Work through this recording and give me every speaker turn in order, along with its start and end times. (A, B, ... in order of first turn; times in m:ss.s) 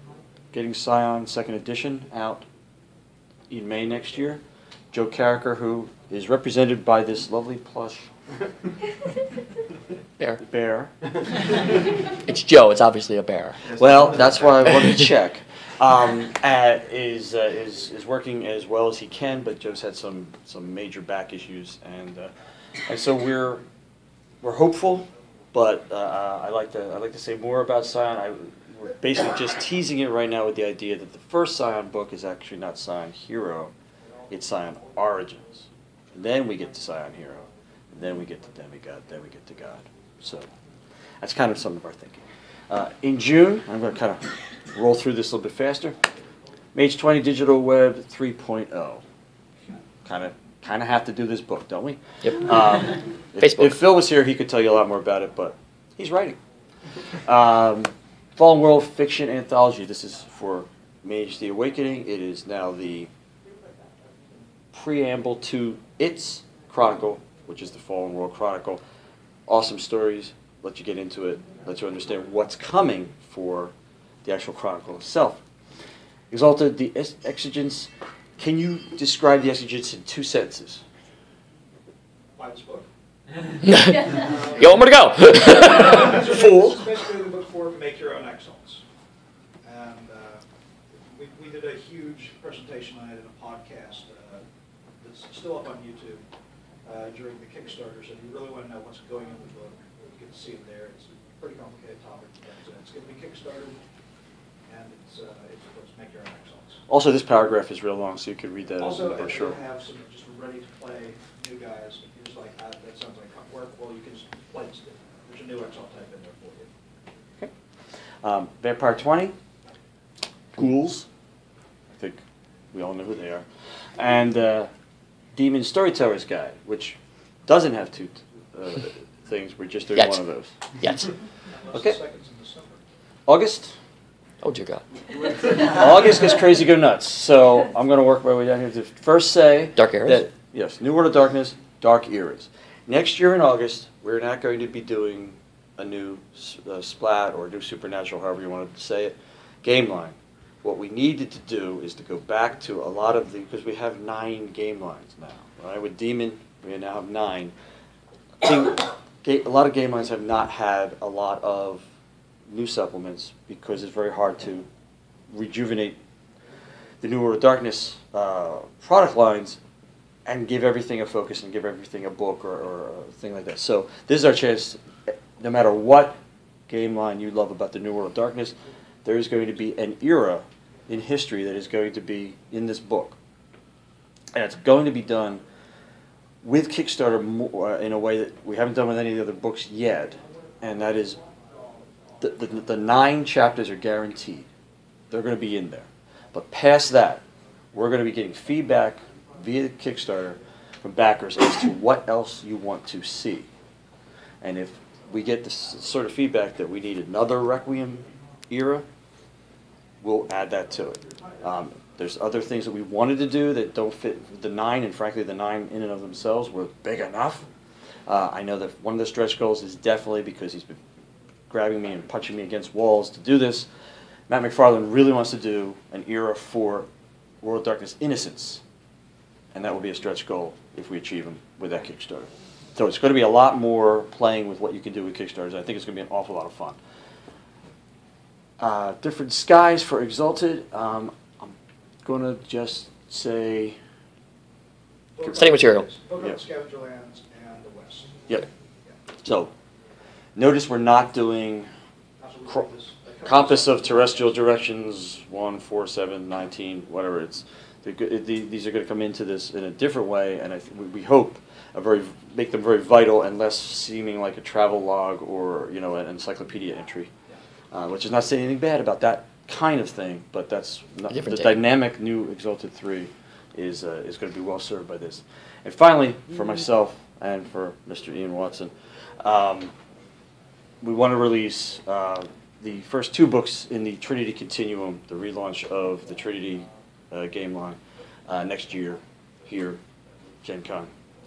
0:00.5-0:02.4 A
0:03.5-0:08.1 A
0:10.4-0:10.9 A
0:12.2-0:13.6 B
0:13.8-0:22.3 A
0:14.7-0:15.0 B
0:22.8-0:23.6 A
0:24.4-0:33.7 A
0:34.3-0:40.5 A
0:41.2-0:46.0 A
0:46.7-0:49.0 A
0:50.0-0:56.4 A
0:53.4-0:53.7 B
0:57.2-1:03.1 A
1:04.7-1:08.8 A
1:09.5-1:13.7 A
1:14.2-1:15.4 A
1:16.3-1:20.8 A
1:22.4-1:22.9 C
1:23.6-1:26.1 B
1:24.1-1:28.8 C
1:25.7-1:26.9 A
1:29.6-1:30.4 C
1:31.1-1:34.4 C
1:35.0-1:36.2 C
1:36.8-1:43.8 C
1:44.7-1:46.8 C
1:46.9-1:49.6 A
1:48.8-1:56.7 C
1:58.2-1:59.4 A
2:00.5-2:01.1 A
2:01.9-2:02.2 A
2:02.7-2:04.7 A
2:05.3-2:10.9 A
2:10.8-2:11.1 B
2:11.5-2:12.8 C
2:11.7-2:12.0 A
2:13.3-2:13.8 A
2:14.4-2:14.8 B
2:15.5-2:37.5 A
2:19.8-2:20.2 B
2:38.4-2:41.8 A
2:42.5-2:44.7 A
2:45.3-2:46.0 A
2:47.0-2:49.6 A
2:50.2-3:03.2 A
3:04.3-3:05.4 A
3:06.4-3:11.2 A
3:12.2-3:14.5 A
3:15.1-3:23.5 A
3:24.4-3:28.8 A
3:30.0-3:37.4 A
3:38.1-3:40.8 A
3:41.5-3:43.7 A
3:44.3-3:46.9 A
3:47.4-3:48.6 A
3:49.5-3:56.8 A
3:58.6-4:03.8 A
4:05.2-4:08.2 C
4:05.3-4:05.9 B
4:09.2-4:09.5 A
4:10.4-4:11.7 A
4:12.2-4:14.4 C
4:13.2-4:27.1 A
4:27.7-4:39.7 A
4:31.1-4:31.5 B
4:40.8-4:49.8 A
4:50.4-4:50.9 A